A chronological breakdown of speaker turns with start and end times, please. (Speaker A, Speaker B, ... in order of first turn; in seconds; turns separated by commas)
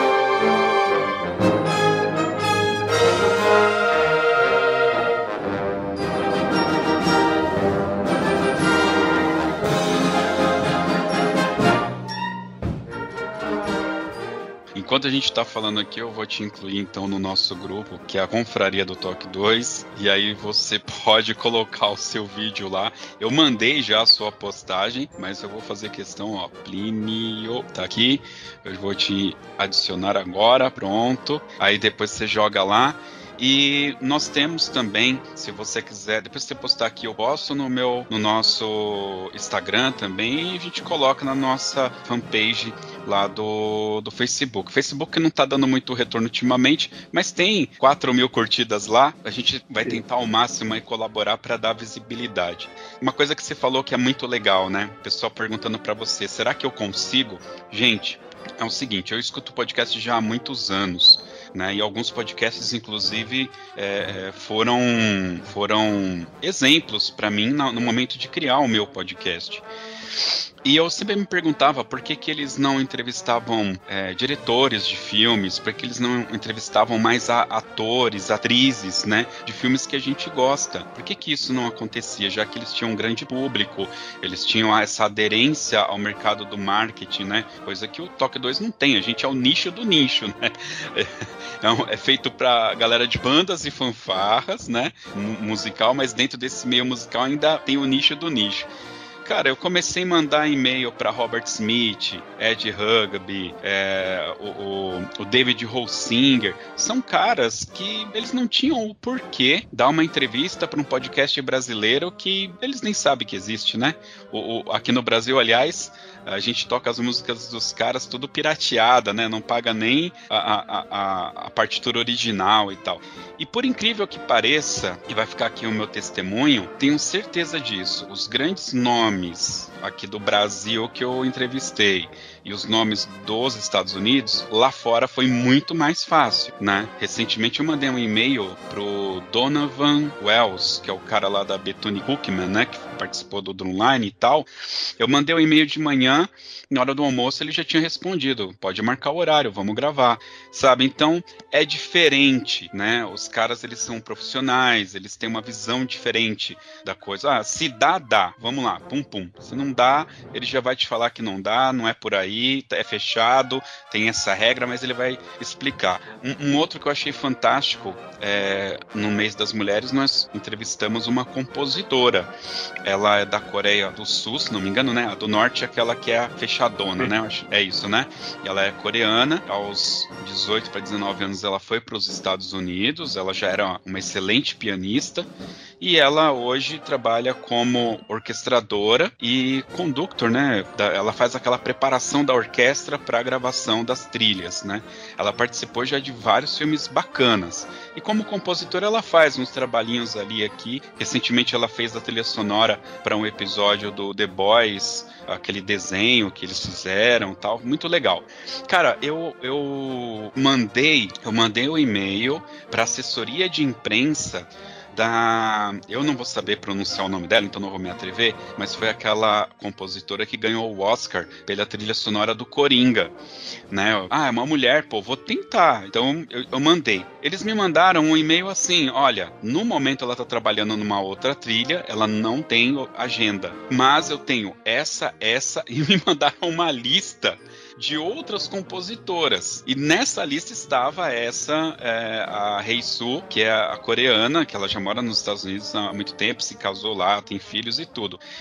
Speaker A: 14.7-69.7, Speaker A: 70.6-98.7, Speaker A: 99.2-144.5, Speaker A: 145.0-172.3, Speaker A: 172.8-223.2, Speaker A: 223.7-248.2